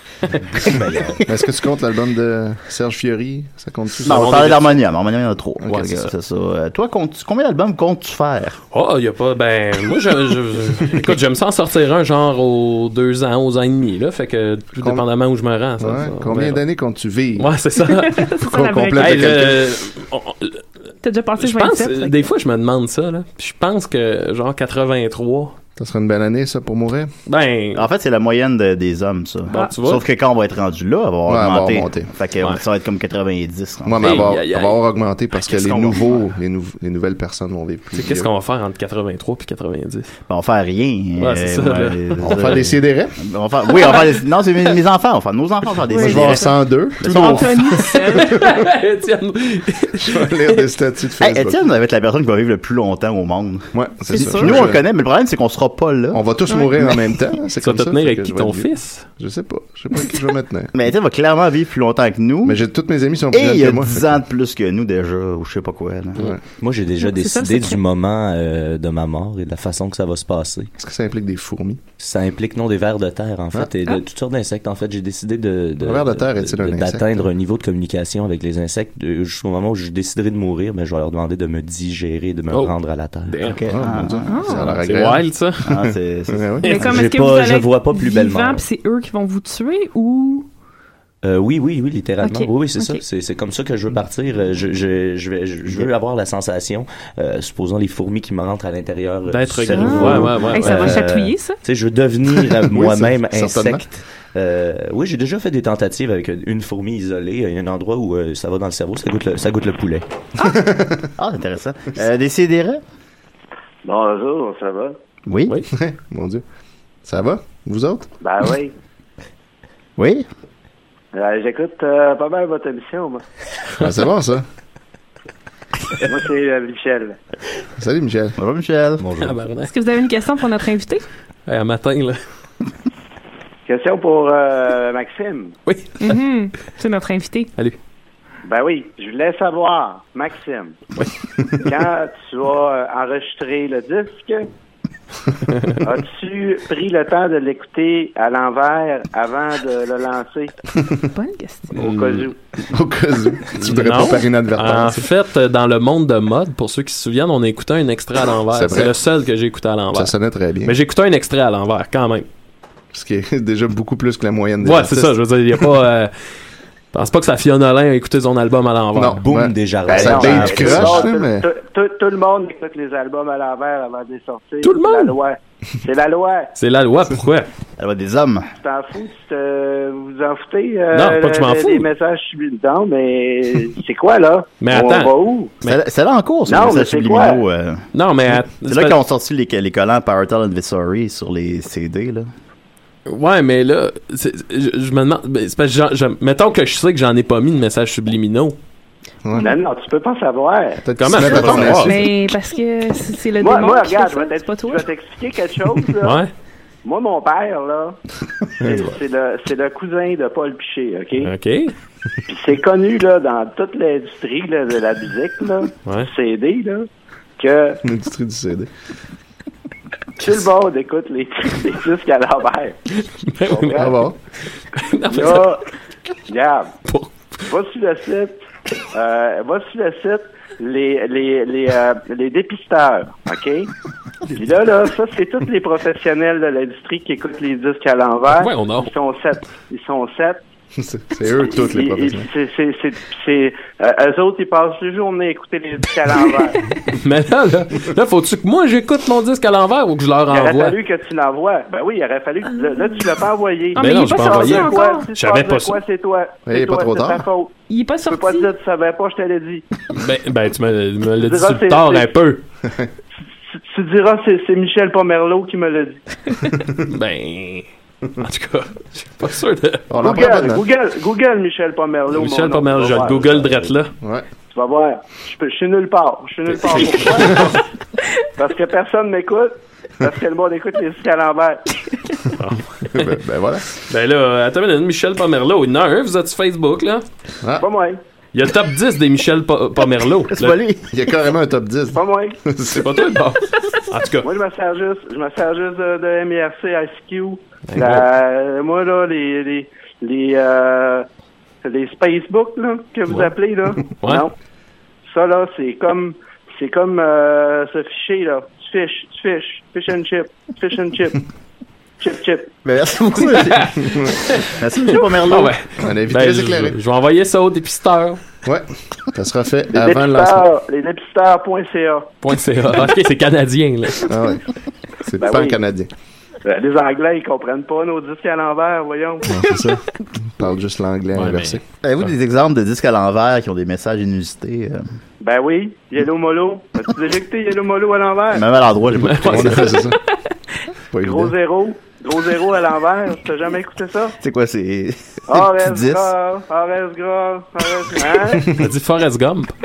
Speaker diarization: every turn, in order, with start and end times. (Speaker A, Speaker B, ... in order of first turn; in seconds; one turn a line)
Speaker A: 0.3-1.2
Speaker B: 1.3-4.5
Speaker C: 4.0-8.6
Speaker D: 4.1-4.7
Speaker B: 5.6-6.1
Speaker D: 8.7-16.6
Speaker B: 14.8-15.1
Speaker B: 15.8-17.6
Speaker D: 17.4-18.3
Speaker E: 17.9-19.4
Speaker B: 18.4-19.8
Speaker D: 19.0-20.6
Speaker E: 21.0-22.3
Speaker D: 21.4-25.6
Speaker B: 25.8-27.1
Speaker D: 27.3-27.9
Speaker C: 27.7-34.3
Speaker D: 29.5-30.0
Speaker B: 31.3-32.1
Speaker B: 33.8-38.3
Speaker D: 34.0-34.8
Speaker D: 35.4-36.1
Speaker D: 38.0-40.1
Speaker C: 40.3-47.9
Speaker D: 41.2-42.6
Speaker B: 42.2-43.1
Speaker E: 45.9-46.5
Speaker B: 45.9-48.5
Speaker E: 47.0-48.4
Speaker D: 48.0-50.7
Speaker B: 49.9-51.6
Speaker C: 51.2-56.2
Speaker B: 53.7-54.8
Speaker E: 54.1-54.6
Speaker B: 56.1-60.7
Speaker D: 57.6-59.1
Speaker C: 60.7-62.6
Speaker B: 62.4-64.2
Speaker C: 63.3-66.3
Speaker A: 66.6-70.7
Speaker E: 67.0-67.8
Speaker B: 70.8-71.8
Speaker A: 72.0-83.4
Speaker B: 75.8-77.3
Speaker D: 83.3-83.6
Speaker C: 83.4-85.0
Speaker B: 83.7-85.3
Speaker E: 84.3-84.7
Speaker D: 84.8-85.8
Speaker C: 85.6-86.7
Speaker B: 86.3-86.8
Speaker E: 86.6-90.5
Speaker A: 86.8-88.6
Speaker A: 91.2-110.0
Speaker E: 92.2-93.0
Speaker D: 99.3-101.0
Speaker E: 99.7-101.6
Speaker B: 102.3-103.9
Speaker B: 110.4-111.1
Speaker C: 111.2-112.8
Speaker F: 113.8-115.0
Speaker C: 115.3-115.6
Speaker B: 115.7-116.4
Speaker B: 117.0-118.1
Speaker F: 118.2-118.7
Speaker C: 120.0-120.2
Speaker F: 121.1-123.2
Speaker B: 123.8-124.5
Speaker F: 126.0-127.2
Speaker B: 127.8-128.4
Speaker C: 128.4-129.0
Speaker A: 129.0-129.4
Speaker D: 129.2-129.7
Speaker E: 129.7-131.0
Speaker D: 131.5-132.2
Speaker F: 133.7-135.6
Speaker D: 135.7-136.1
Speaker E: 136.0-137.5
Speaker F: 138.4-140.8
Speaker F: 141.6-144.5
Speaker D: 145.5-145.8
Speaker F: 145.8-150.5
Speaker E: 151.1-151.8
Speaker F: 151.7-152.4
Speaker D: 151.8-152.3
Speaker B: 152.7-155.1
Speaker D: 153.5-162.3
Speaker B: 158.5-159.0
Speaker B: 159.9-160.8
Speaker B: 162.9-165.2
Speaker D: 164.6-166.1
Speaker D: 166.9-169.2
Speaker B: 168.9-171.5
Speaker A: 169.2-171.1
Speaker C: 169.9-170.9
Speaker F: 170.0-176.5
Speaker D: 174.6-175.2
Speaker D: 176.6-177.5
Speaker C: 177.8-178.5
Speaker F: 178.6-185.5
Speaker D: 180.9-181.9
Speaker D: 184.6-185.8
Speaker C: 185.6-187.8
Speaker F: 186.5-187.4
Speaker D: 187.9-189.0
Speaker C: 188.7-192.3
Speaker D: 193.1-198.6
Speaker B: 199.2-199.5
Speaker F: 199.4-200.8
Speaker B: 200.8-202.1
Speaker D: 201.0-202.0
Speaker E: 201.2-204.9
Speaker F: 203.4-206.2
Speaker D: 206.0-206.3
Speaker F: 206.8-208.0
Speaker B: 208.6-208.9
Speaker F: 208.6-211.3
Speaker D: 211.2-211.7
Speaker F: 212.3-216.9
Speaker F: 217.4-217.8
Speaker B: 217.8-218.7
Speaker F: 220.2-222.8
Speaker D: 223.2-223.9
Speaker F: 223.4-223.9
Speaker B: 223.8-224.2
Speaker D: 224.7-225.5
Speaker F: 225.1-225.6
Speaker F: 226.3-226.7
Speaker D: 226.9-227.4
Speaker F: 227.5-228.4
Speaker F: 228.9-233.7
Speaker F: 234.3-240.4
Speaker D: 238.4-238.9
Speaker B: 240.8-242.3
Speaker F: 241.3-246.6
Speaker D: 246.9-250.8
Speaker F: 250.3-257.5
Speaker E: 253.7-255.1
Speaker D: 253.8-255.8
Speaker B: 256.5-257.3
Speaker E: 257.7-258.5
Speaker F: 258.0-259.6
Speaker D: 259.9-262.4
Speaker F: 261.2-262.1
Speaker F: 263.5-266.0
Speaker D: 266.9-269.9
Speaker B: 269.9-270.6
Speaker F: 270.0-273.5
Speaker D: 272.1-273.9
Speaker B: 274.0-274.3
Speaker F: 274.5-277.6
Speaker D: 277.0-277.6
Speaker F: 278.4-281.6
Speaker D: 282.4-283.1
Speaker B: 282.9-283.7
Speaker D: 283.9-287.1
Speaker F: 287.6-288.0
Speaker D: 288.3-290.6
Speaker C: 290.3-290.9
Speaker B: 290.9-293.1
Speaker F: 291.9-292.4
Speaker D: 292.8-294.3
Speaker F: 294.2-301.1
Speaker D: 297.7-298.1
Speaker F: 301.6-304.3
Speaker D: 303.9-304.3
Speaker F: 305.1-311.2
Speaker F: 312.0-312.6
Speaker C: 312.6-313.8
Speaker D: 313.2-318.2
Speaker C: 314.4-315.6
Speaker B: 315.8-316.8
Speaker B: 318.4-320.5
Speaker F: 319.7-322.1
Speaker D: 322.2-324.1
Speaker B: 324.0-324.5
Speaker B: 325.0-325.9
Speaker F: 325.2-325.6
Speaker F: 326.4-329.4
Speaker B: 329.3-331.6
Speaker D: 331.1-331.6
Speaker C: 331.8-334.9
Speaker F: 335.2-338.4
Speaker C: 338.3-339.8
Speaker D: 339.0-339.9
Speaker B: 339.2-340.0
Speaker B: 340.9-341.3
Speaker F: 341.0-344.2
Speaker C: 344.2-346.1
Speaker F: 345.3-348.6
Speaker D: 348.5-349.6